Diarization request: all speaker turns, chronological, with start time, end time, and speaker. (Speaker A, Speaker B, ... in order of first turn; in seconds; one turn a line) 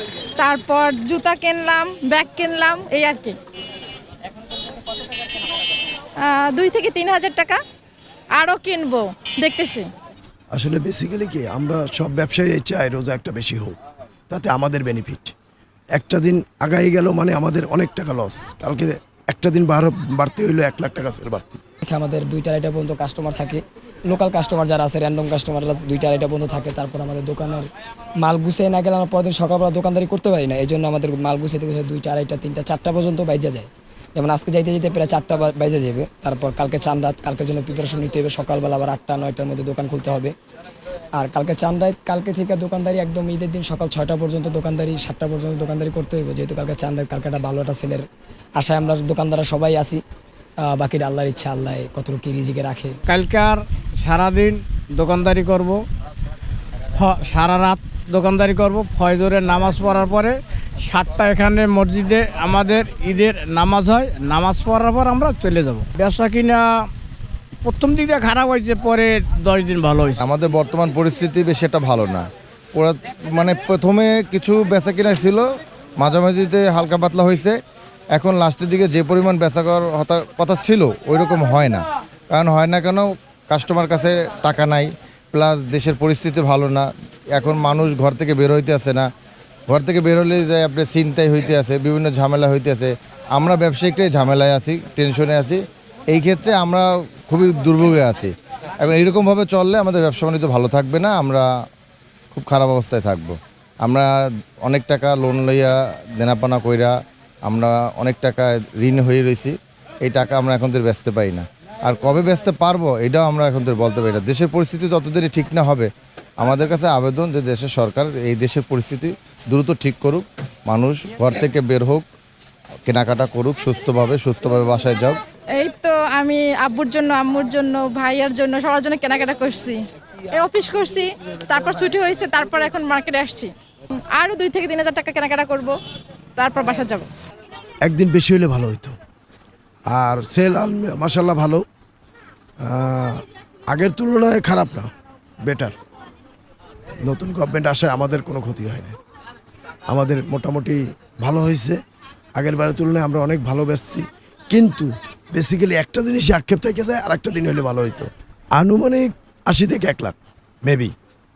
Speaker A: 0.4-3.3
Speaker A: 6.2-7.6
Speaker A: 8.4-9.8
Speaker B: 10.5-13.8
Speaker B: 14.3-15.3
Speaker B: 15.9-21.6
Speaker C: 21.8-27.7
Speaker C: 28.2-40.3
Speaker C: 41.2-48.0
Speaker C: 48.6-50.0
Speaker C: 50.6-53.0
Speaker D: 53.1-55.8
Speaker D: 56.9-66.7
Speaker D: 67.6-70.2
Speaker E: 70.2-75.4
Speaker E: 76.0-77.6
Speaker E: 78.1-89.1
Speaker E: 89.7-101.5
Speaker E: 102.3-104.1
Speaker E: 104.6-106.9
Speaker E: 107.5-122.0
Speaker E: 122.9-125.2
Speaker A: 125.6-129.8
Speaker A: 130.4-133.5
Speaker A: 134.1-135.7
Speaker A: 136.4-137.1
Speaker B: 137.8-139.0
Speaker B: 139.9-141.6
Speaker B: 142.6-144.9
Speaker B: 145.5-145.8
Speaker B: 147.0-149.0
Speaker B: 149.9-151.8
Speaker B: 152.4-160.9